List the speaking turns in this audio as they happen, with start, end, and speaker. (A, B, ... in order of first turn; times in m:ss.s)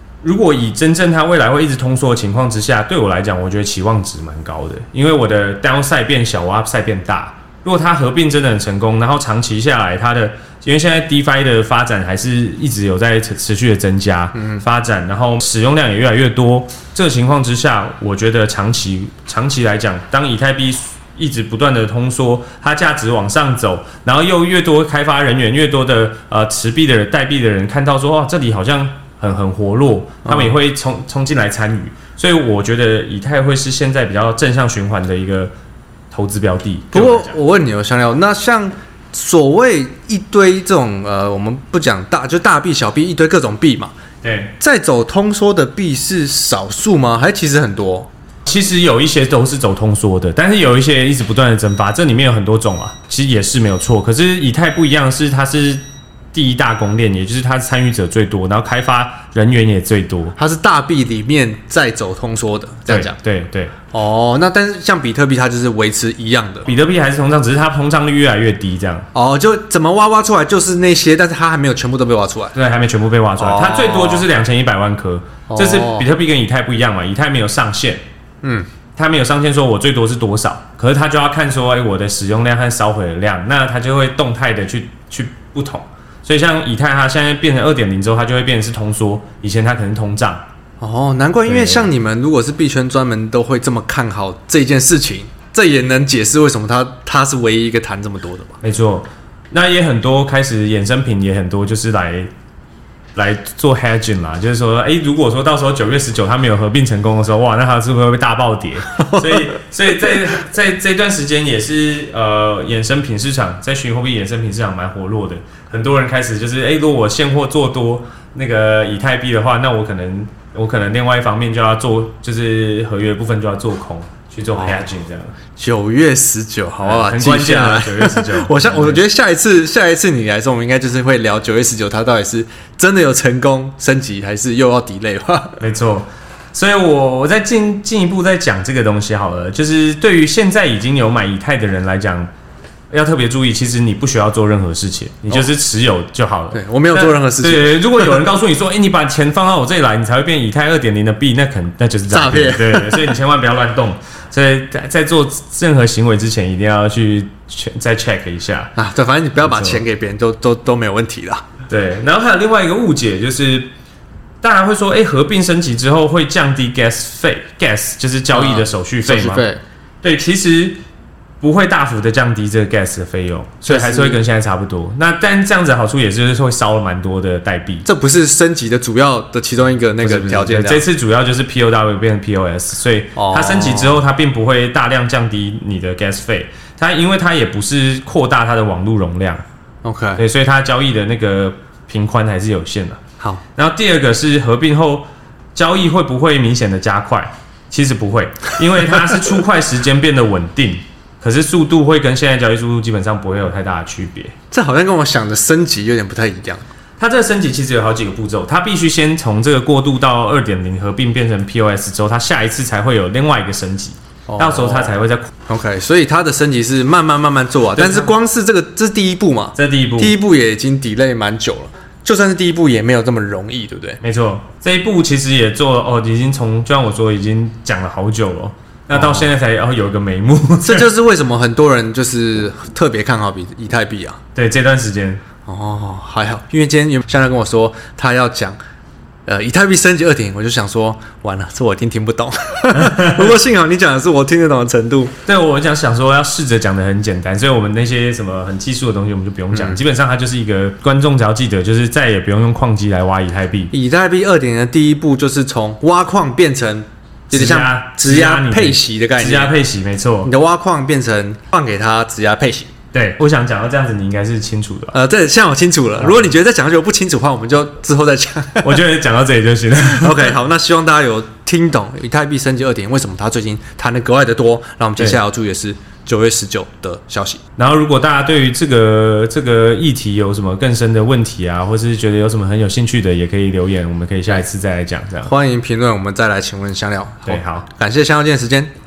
0:00.2-0:35.5 A
0:14.4-0:14.6 B
0:30.2-0:30.6 B
0:36.1-0:37.4 A
0:36.9-0:43.9 B
0:44.2-0:44.5 A
0:44.6-0:48.1 B
0:48.5-1:00.4 A
1:00.4-1:03.2 B
1:02.9-1:03.7 A
1:03.9-1:06.7 B
1:06.7-1:09.1 A
1:09.1-1:12.6 B
1:12.5-1:18.0 A
1:13.4-1:14.3 B
1:15.5-1:16.1 B
1:18.4-1:18.7 B
1:19.0-1:30.4 A
1:30.8-1:38.6 B
1:31.5-1:31.9 A
1:38.6-1:42.3 A
1:43.2-2:05.4 A
2:04.5-2:04.9 B
2:05.6-2:15.6 B
2:06.8-2:09.0 A
2:15.6-2:22.3 A
2:22.9-2:38.7 A
2:26.5-2:28.2 B
2:32.1-2:33.1 B
2:38.8-2:41.4 B
2:39.4-2:39.8 A
2:41.7-2:43.7 A
2:44.4-2:49.5 A
2:48.3-2:49.6 B
2:50.0-2:50.8 A
2:51.4-2:57.9 A
2:53.6-2:54.2 B
2:57.8-3:00.8 B
3:00.0-3:09.4 A
3:03.2-3:04.0 B
3:09.8-3:10.2 B
3:10.2-3:13.0 A
3:13.6-3:24.3 A
3:24.5-3:26.6 B
3:27.0-3:35.3 A
3:34.3-3:44.0 B
3:37.7-3:38.1 A
3:39.6-3:40.2 A
3:44.0-3:50.9 A
3:48.9-3:49.3 B
3:50.6-3:54.2 B
3:54.4-3:55.2 A
3:55.4-3:58.6 B
3:59.3-4:05.1 B
4:05.2-4:13.7 A
4:09.5-4:09.8 B
4:13.7-4:19.5 B
4:17.3-4:20.3 A
4:20.2-4:22.7 B
4:22.9-4:25.0 A
4:24.9-4:28.8 B
4:28.6-4:30.4 A
4:30.0-4:37.4 B
4:37.6-4:45.3 A
4:45.2-4:48.7 B
4:47.3-4:47.7 A